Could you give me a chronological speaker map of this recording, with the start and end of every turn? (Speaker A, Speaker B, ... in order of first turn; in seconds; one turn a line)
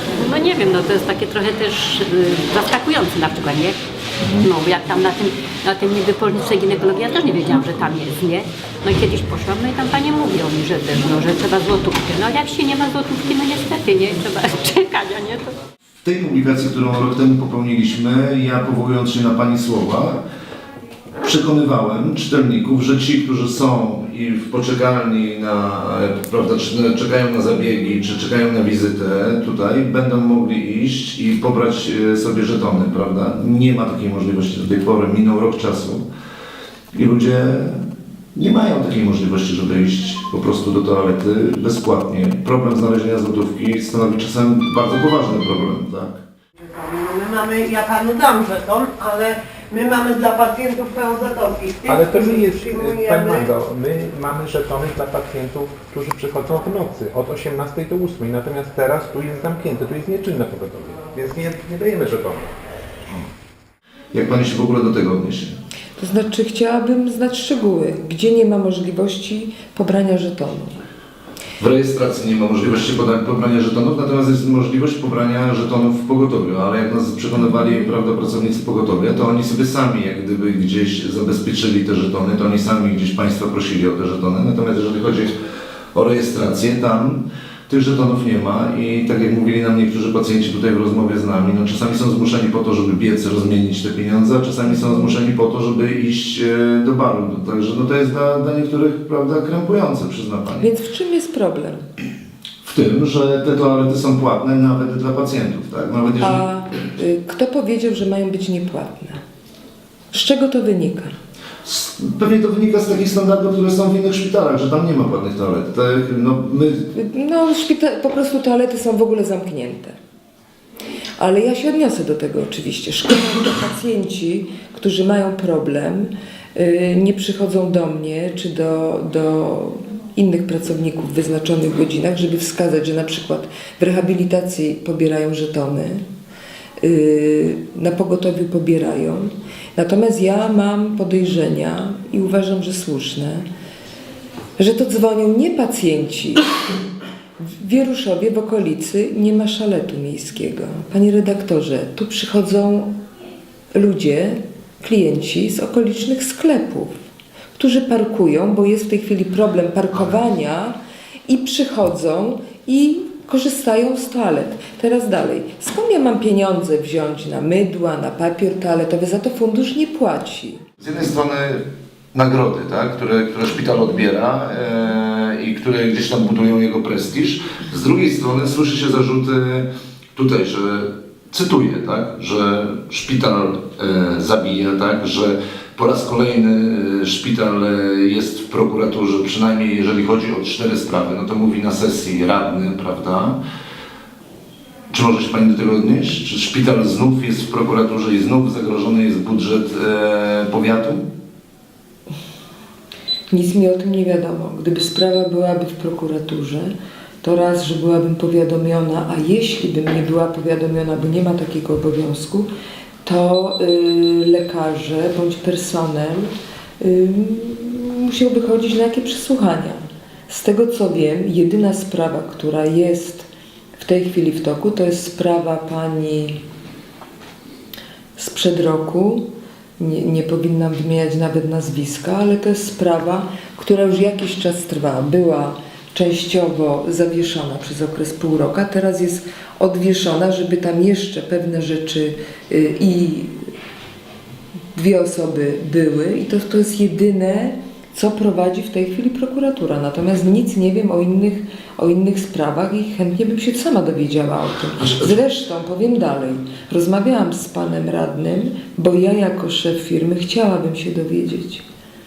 Speaker A: 0.2-3.8
Speaker B: 4.2-4.5
Speaker A: 4.4-15.5
Speaker B: 16.0-20.2
Speaker B: 21.2-36.0
Speaker B: 36.9-46.2
Speaker C: 46.6-53.5
Speaker D: 51.9-62.6
Speaker B: 64.1-65.6
Speaker E: 66.0-70.8
Speaker B: 71.6-85.3
Speaker B: 85.9-100.7
Speaker E: 100.6-101.9
Speaker B: 102.6-106.4
Speaker E: 106.2-109.2
Speaker E: 110.1-111.2
Speaker B: 111.6-116.9
Speaker E: 116.9-120.0
Speaker E: 121.2-136.1
Speaker E: 136.8-143.5
Speaker E: 144.6-146.4
Speaker E: 147.4-153.0
Speaker E: 153.7-157.0
Speaker E: 157.6-160.8
Speaker E: 161.3-170.6
Speaker B: 170.8-193.4
Speaker B: 194.9-201.1
Speaker E: 203.3-212.5
Speaker E: 213.1-226.4
Speaker E: 228.2-243.5
Speaker E: 244.7-261.6
Speaker B: 254.8-255.1